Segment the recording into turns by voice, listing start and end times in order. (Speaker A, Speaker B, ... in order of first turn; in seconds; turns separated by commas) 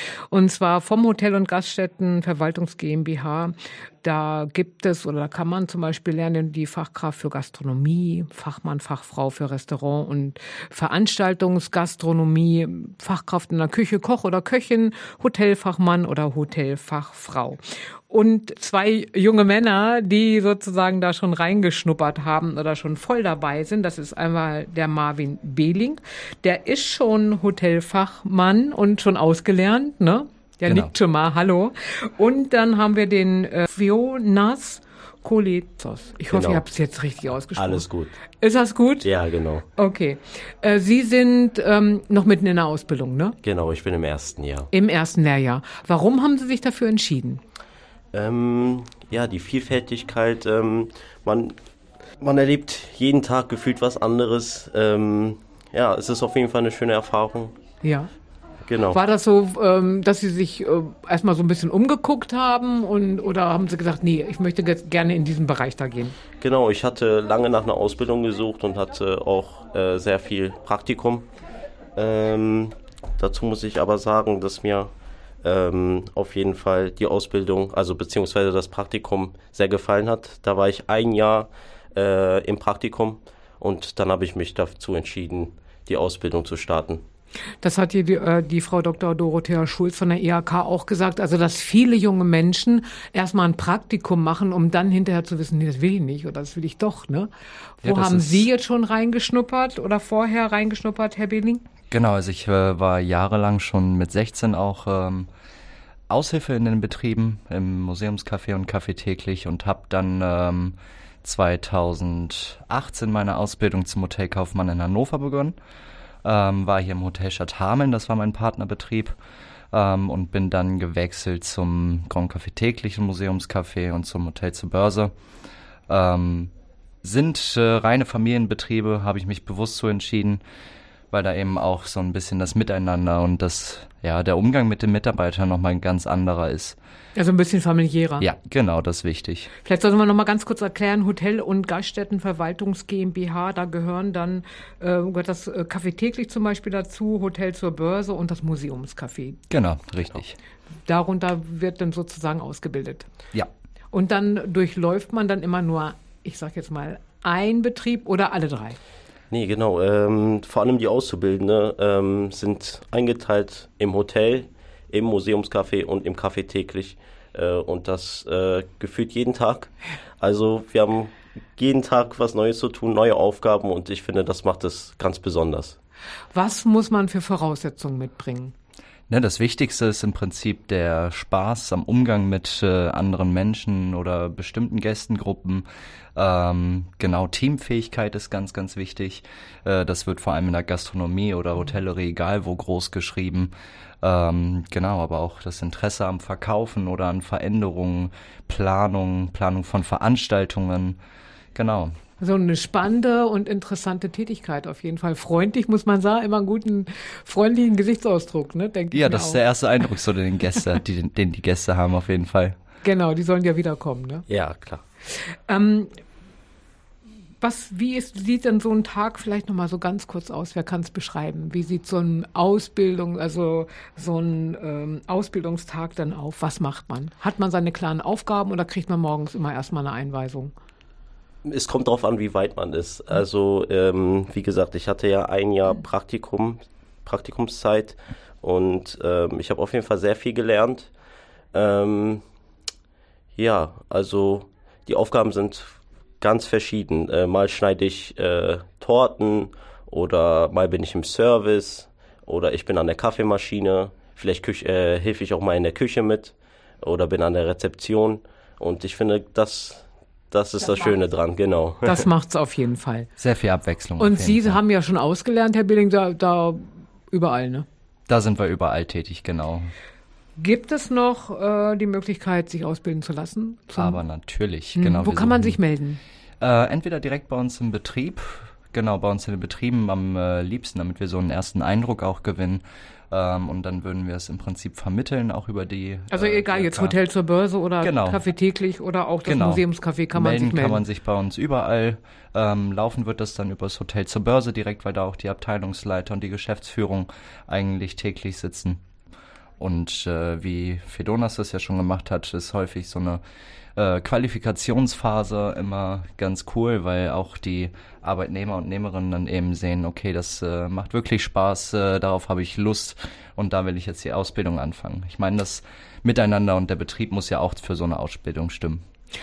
Speaker A: 0.3-39.1, Speaker B: 36.3-36.6, Speaker B: 37.6-38.2, Speaker B: 39.0-39.6, Speaker A: 39.7-43.4, Speaker B: 43.4-44.7, Speaker A: 44.7-47.4, Speaker B: 48.1-51.5, Speaker B: 52.2-57.5, Speaker A: 57.8-58.1, Speaker B: 58.7-59.0, Speaker A: 58.9-66.2, Speaker B: 66.4-71.3, Speaker B: 72.0-74.9, Speaker B: 75.4-87.0, Speaker A: 87.6-101.6, Speaker C: 97.8-98.5, Speaker C: 101.9-105.3, Speaker C: 106.1-115.5, Speaker C: 116.2-119.2, Speaker C: 119.7-125.1, Speaker C: 125.9-126.5, Speaker C: 127.0-130.4, Speaker C: 131.1-136.8, Speaker A: 137.2-138.2, Speaker C: 138.2-139.5, Speaker A: 139.6-149.4, Speaker C: 149.5-150.4, Speaker A: 150.8-153.1, Speaker A: 153.9-158.8, Speaker B: 159.3-175.8, Speaker A: 176.3-178.5, Speaker C: 179.1-185.7, Speaker C: 186.2-193.5, Speaker C: 194.0-201.0, Speaker C: 201.5-201.9, Speaker A: 202.2-209.4, Speaker C: 208.9-212.5, Speaker A: 212.8-214.2, Speaker B: 214.3-214.8, Speaker A: 215.5-215.9, Speaker A: 217.4-230.5, Speaker B: 231.4-240.9, Speaker B: 241.5-242.2, Speaker B: 243.3-262.1, Speaker A: 261.8-263.1, Speaker C: 263.2-264.6, Speaker A: 264.0-267.6, Speaker C: 268.1-269.7, Speaker A: 270.4-274.0, Speaker C: 273.8-275.6, Speaker A: 274.8-276.0, Speaker C: 276.4-286.9, Speaker A: 286.1-290.8, Speaker C: 287.8-288.2, Speaker C: 289.2-298.8, Speaker C: 299.6-303.2, Speaker C: 303.8-318.8